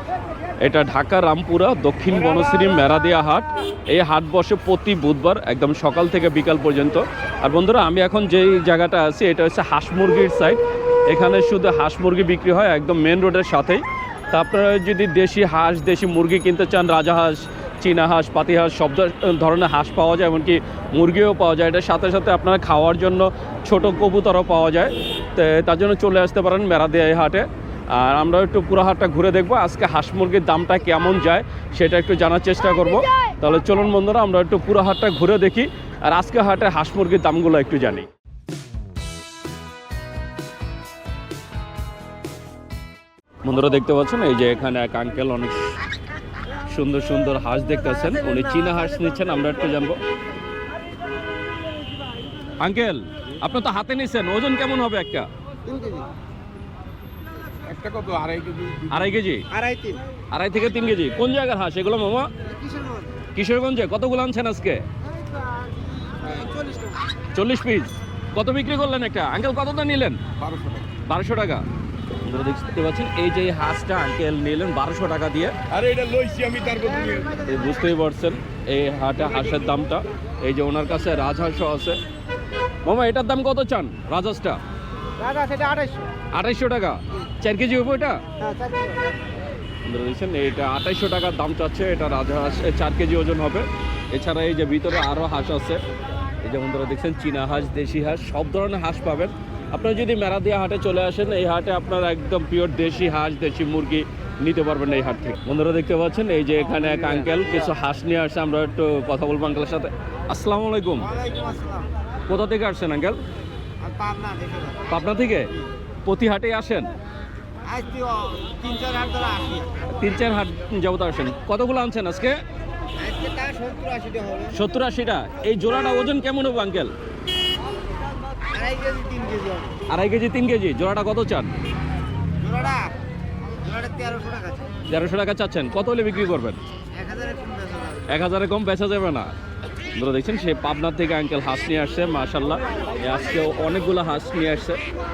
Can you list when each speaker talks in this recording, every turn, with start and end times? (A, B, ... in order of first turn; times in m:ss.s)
0:00.6-0:38.1 A
0:43.4-0:45.8 A
0:46.6-0:50.0 A
0:52.6-0:55.3 A
0:55.6-0:56.1 B
0:57.9-0:58.4 B
0:58.8-0:59.4 A
0:59.5-1:00.0 B
1:00.3-1:02.3 A
1:02.5-1:03.1 B
1:03.3-1:04.8 A
1:05.5-1:07.0 B
1:07.3-1:10.2 A
1:10.9-1:11.6 A
1:12.2-1:15.8 A
1:16.7-1:17.3 B
1:17.4-1:22.0 A
1:22.8-1:24.6 A
1:25.3-1:26.0 B
1:26.3-1:28.2 A
1:28.5-1:28.8 B
1:29.8-1:35.8 A
1:36.4-1:51.1 A
1:51.0-1:51.9 B
1:52.3-1:53.2 A
1:53.8-1:54.8 B
1:54.9-1:55.5 A
1:56.0-1:56.9 A
1:57.6-1:59.7 B
1:59.9-2:02.4 A
2:03.0-2:04.5 B
2:04.5-2:06.9 A
2:08.5-2:09.8 B
2:09.9-2:11.5 A
2:12.4-2:14.8 B
2:14.9-2:16.6 A
2:16.9-2:18.1 B
2:18.1-2:19.3 A
2:19.9-2:24.8 A